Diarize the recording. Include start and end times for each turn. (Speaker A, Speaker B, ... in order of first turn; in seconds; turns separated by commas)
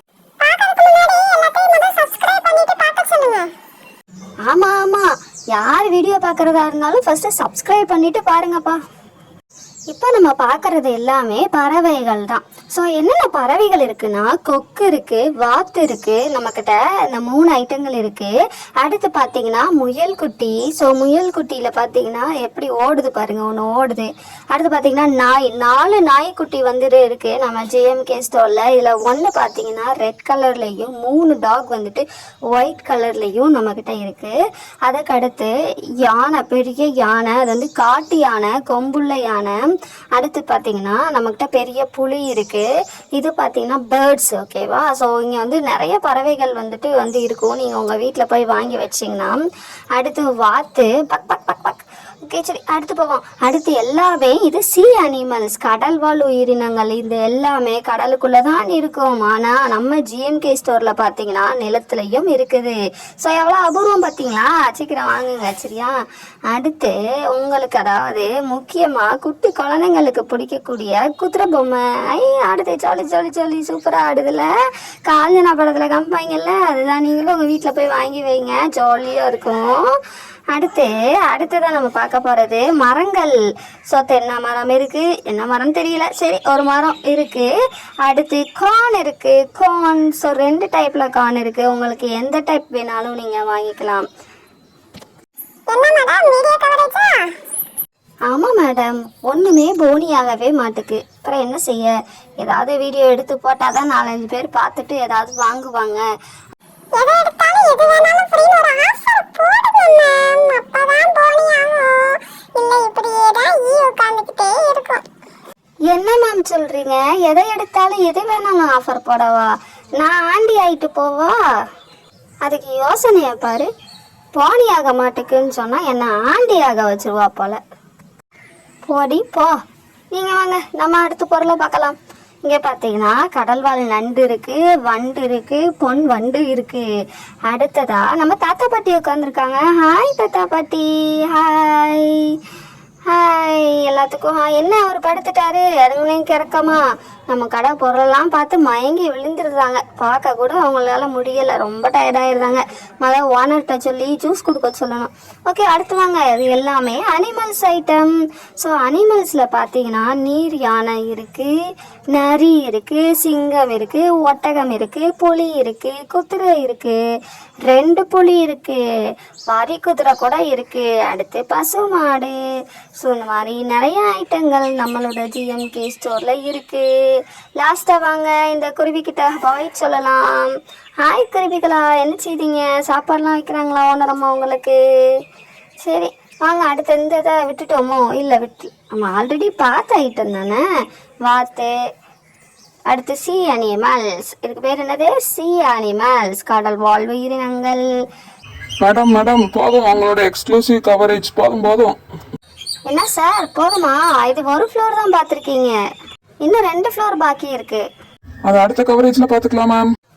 Speaker A: 0.4-3.5, Speaker B: 4.5-8.8, Speaker B: 9.9-39.6, Speaker B: 40.1-49.4, Speaker B: 50.0-74.5, Speaker B: 75.1-80.0, Speaker B: 80.5-83.4, Speaker B: 83.9-87.5, Speaker B: 88.0-94.1, Speaker A: 95.7-97.3, Speaker B: 98.3-106.0, Speaker A: 106.9-115.0, Speaker B: 115.9-121.4, Speaker B: 122.4-123.7, Speaker B: 124.3-127.6, Speaker B: 128.8-129.5, Speaker B: 130.1-136.9, Speaker B: 137.5-142.4, Speaker B: 143.1-161.5, Speaker B: 162.1-167.0, Speaker B: 167.6-168.8, Speaker B: 169.5-172.4, Speaker B: 173.0-185.2, Speaker B: 185.8-190.6, Speaker B: 191.2-191.7, Speaker B: 192.9-197.8, Speaker C: 198.8-202.0, Speaker B: 202.9-205.8, Speaker B: 206.4-207.8, Speaker C: 208.5-209.9